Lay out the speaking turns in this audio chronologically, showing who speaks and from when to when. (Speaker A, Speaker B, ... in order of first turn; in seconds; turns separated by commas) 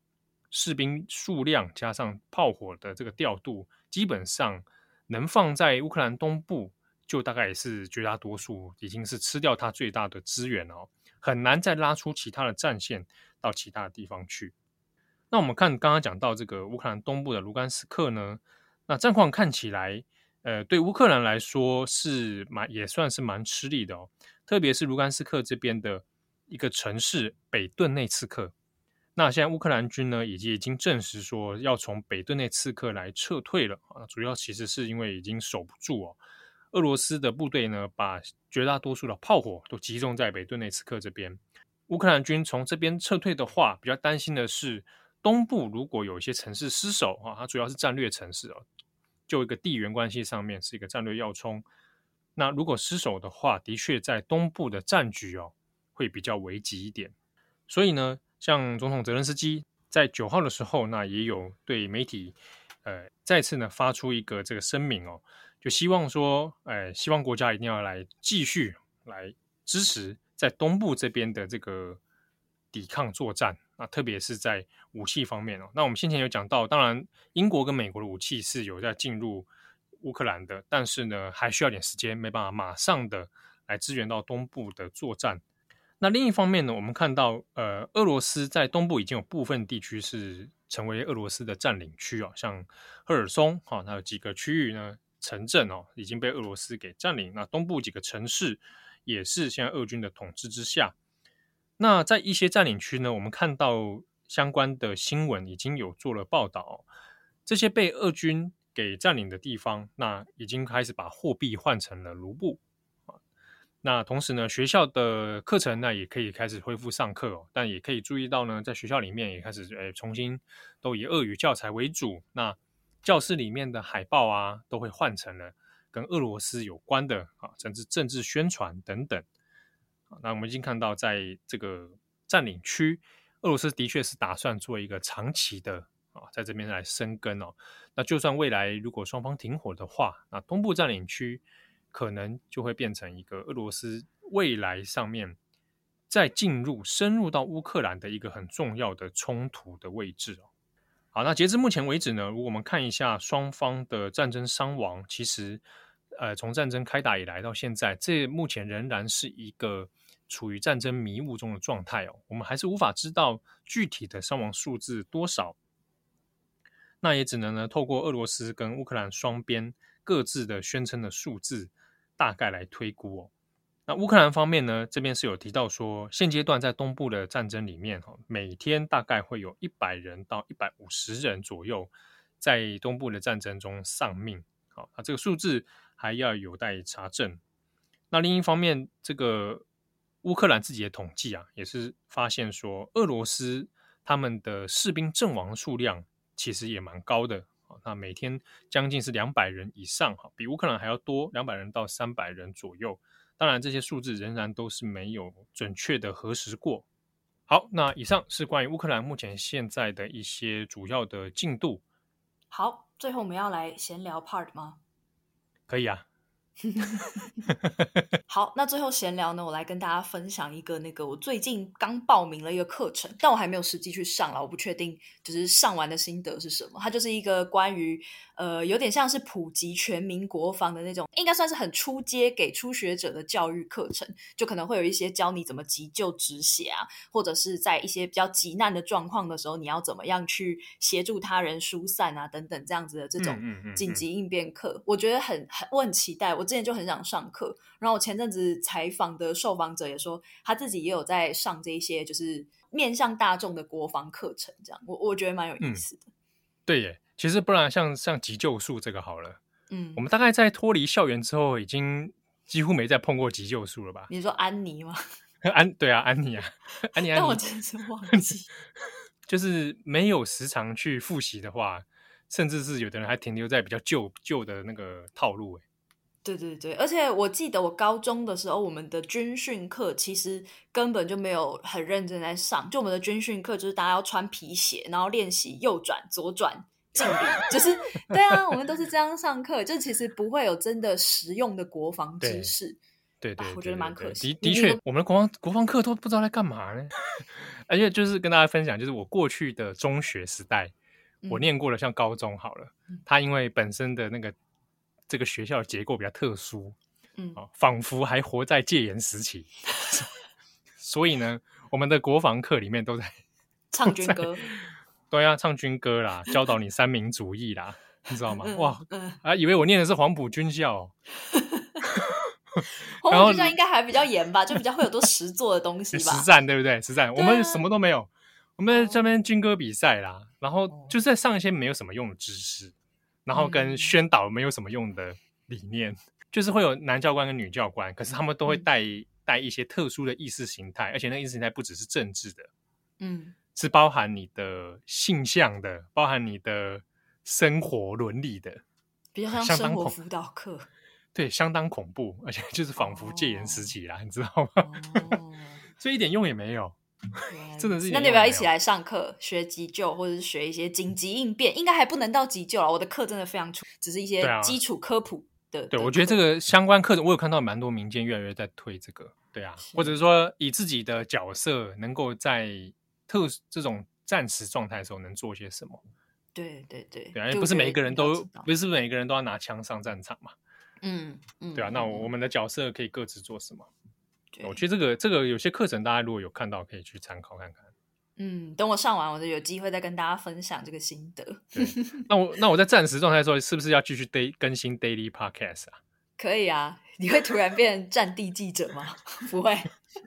Speaker A: 0.5-14.5, Speaker A: 15.3-28.5, Speaker A: 29.1-36.2, Speaker A: 36.7-48.6, Speaker A: 49.3-51.6, Speaker A: 52.4-57.1, Speaker A: 57.7-72.0, Speaker A: 72.7-79.5, Speaker A: 80.0-85.4, Speaker A: 86.0-100.9, Speaker A: 101.8-106.8, Speaker A: 107.5-112.6, Speaker A: 113.8-129.2, Speaker A: 130.1-145.4, Speaker A: 146.1-150.5, Speaker A: 151.1-165.6, Speaker A: 167.0-173.3, Speaker A: 173.9-187.4, Speaker A: 188.1-189.6, Speaker A: 190.2-206.8, Speaker A: 207.5-211.8, Speaker B: 212.5-214.8, Speaker A: 215.7-216.0, Speaker B: 216.7-217.2, Speaker B: 218.3-256.1, Speaker A: 243.2-244.0, Speaker A: 256.7-259.4, Speaker B: 259.7-260.0, Speaker A: 259.9-264.1, Speaker B: 264.1-265.0, Speaker A: 265.4-267.4, Speaker B: 267.0-268.5, Speaker A: 269.2-275.6, Speaker B: 276.2-292.8, Speaker A: 292.2-292.5, Speaker A: 293.2-300.7, Speaker B: 293.4-294.8, Speaker B: 301.2-301.5, Speaker A: 301.3-304.3, Speaker A: 305.1-306.8, Speaker A: 307.4-309.9, Speaker A: 310.8-313.1, Speaker B: 313.7-314.4, Speaker A: 313.8-314.5, Speaker A: 315.1-320.9, Speaker B: 318.3-319.2, Speaker B: 321.3-321.8, Speaker B: 322.9-326.3, Speaker A: 323.1-323.5, Speaker A: 325.9-332.7, Speaker B: 327.1-327.7, Speaker B: 328.7-329.1, Speaker B: 330.7-330.9, Speaker A: 333.2-342.5, Speaker B: 333.3-334.0, Speaker B: 343.0-343.4, Speaker A: 343.6-348.6, Speaker B: 349.1-350.7, Speaker A: 349.3-350.0, Speaker A: 351.1-355.2, Speaker B: 352.8-353.7, Speaker B: 354.6-355.6, Speaker A: 355.8-358.5, Speaker B: 357.3-366.2, Speaker A: 364.2-364.6, Speaker A: 365.7-375.8, Speaker B: 369.6-370.0, Speaker B: 376.3-378.5, Speaker A: 377.1-380.3, Speaker B: 380.8-382.1, Speaker A: 381.6-383.7, Speaker B: 384.3-384.6, Speaker A: 384.4-387.7, Speaker B: 388.2-392.1, Speaker A: 391.5-395.8, Speaker B: 396.2-399.7